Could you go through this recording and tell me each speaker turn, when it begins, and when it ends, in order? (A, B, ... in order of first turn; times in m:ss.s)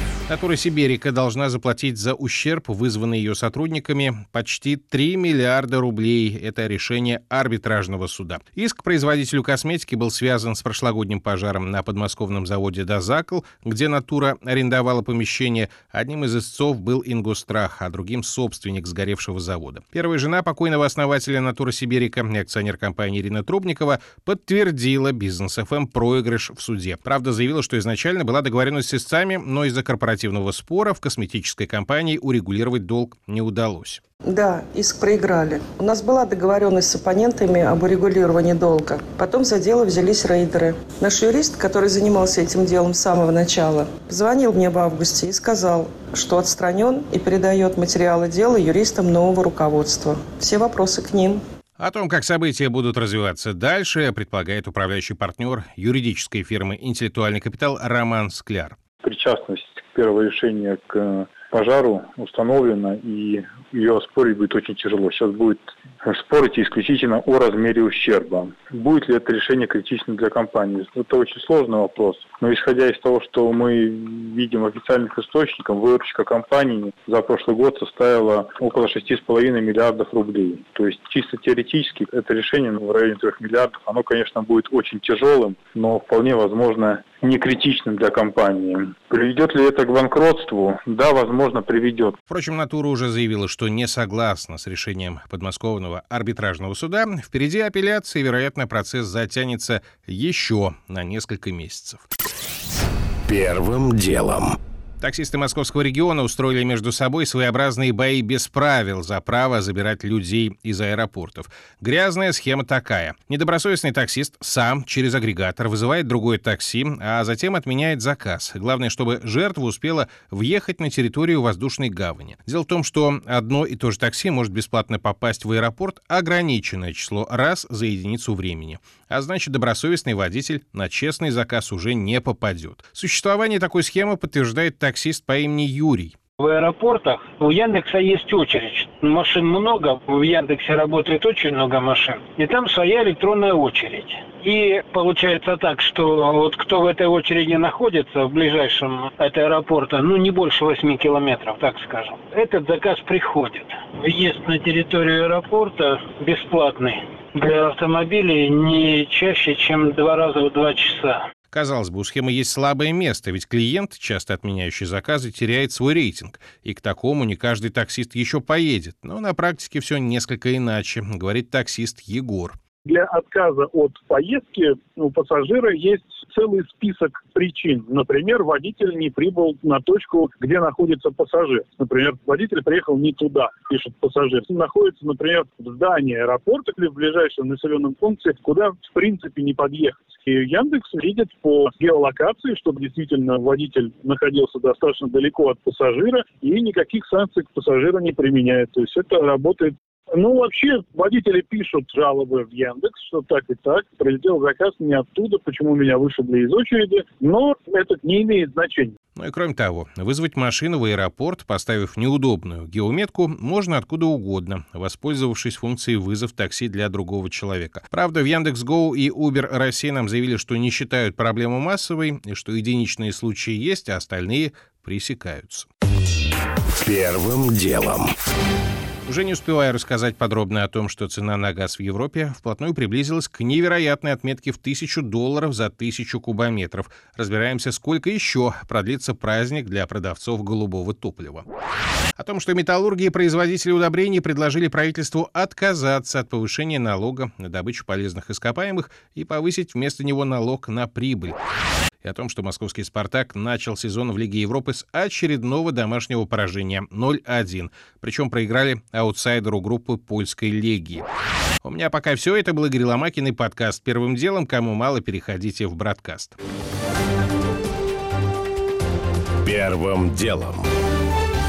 0:00.3-0:34.0 A
0:34.3-0:51.4 B
0:51.8-0:58.8 A
0:59.0-1:32.2 C
1:32.3-1:42.0 A
1:43.8-1:44.5 D
1:45.0-2:16.1 A
2:16.4-2:41.2 E
2:41.5-2:52.6 A
2:52.9-3:28.9 F
3:29.2-3:45.7 A
3:46.8-3:48.1 D
3:49.1-4:01.4 A
4:02.2-4:11.4 A
4:12.0-4:21.0 A
4:21.6-4:26.4 A
4:29.5-4:30.7 D